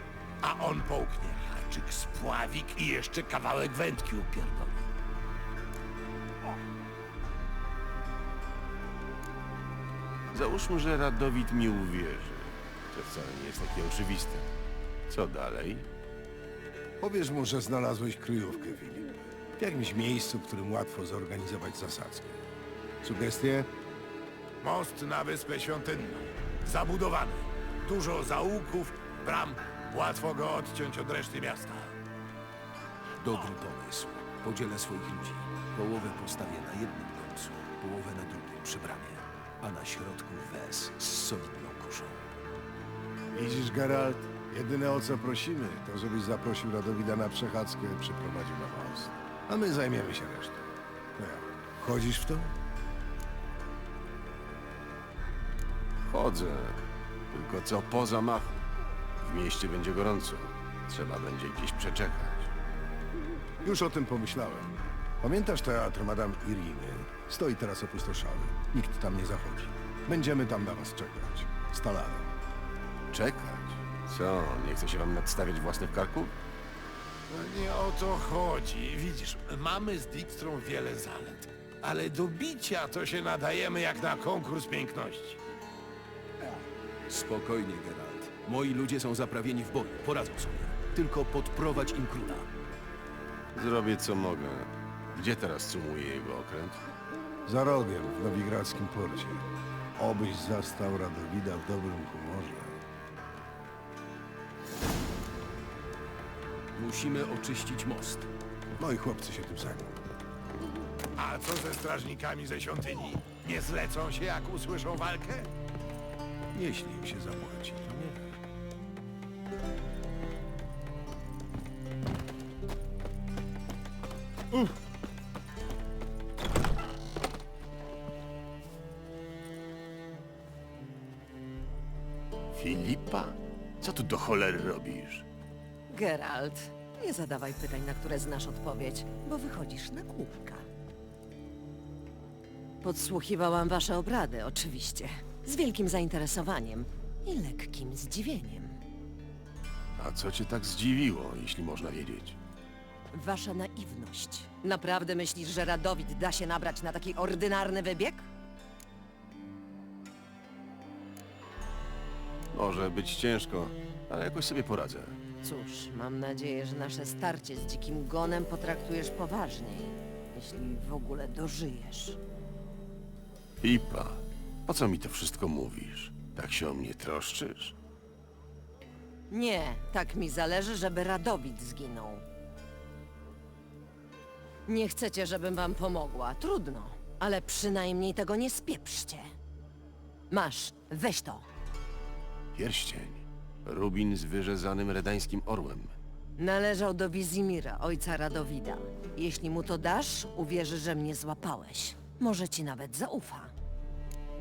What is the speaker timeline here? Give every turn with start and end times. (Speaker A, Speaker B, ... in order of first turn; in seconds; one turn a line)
Speaker A: 0.4-4.8
Speaker B: 10.3-14.5
Speaker B: 15.1-15.9
Speaker C: 17.0-22.4
Speaker C: 23.0-23.7
Speaker A: 24.6-31.9
Speaker D: 33.2-42.2
Speaker C: 43.3-52.5
Speaker B: 56.0-58.7
Speaker B: 59.2-62.5
Speaker C: 63.6-72.3
Speaker B: 73.1-76.3
Speaker A: 77.3-85.4
Speaker D: 87.1-92.5
Speaker B: 93.5-96.8
Speaker C: 97.5-99.5
Speaker C: 100.0-102.8
Speaker D: 106.8-108.3
Speaker C: 108.8-110.0
Speaker A: 111.2-115.5
Speaker C: 116.5-118.3
Speaker B: 132.5-135.2
Speaker E: 135.9-140.7
Speaker E: 142.8-148.8
Speaker B: 150.0-152.4
Speaker E: 153.1-158.3
Speaker B: 162.5-165.2
Speaker E: 165.4-172.2
Speaker B: 173.6-177.8
Speaker E: 179.3-182.2
Speaker E: 184.7-189.3
Speaker E: 190.3-191.5
Speaker B: 192.6-195.9
Speaker E: 196.4-203.5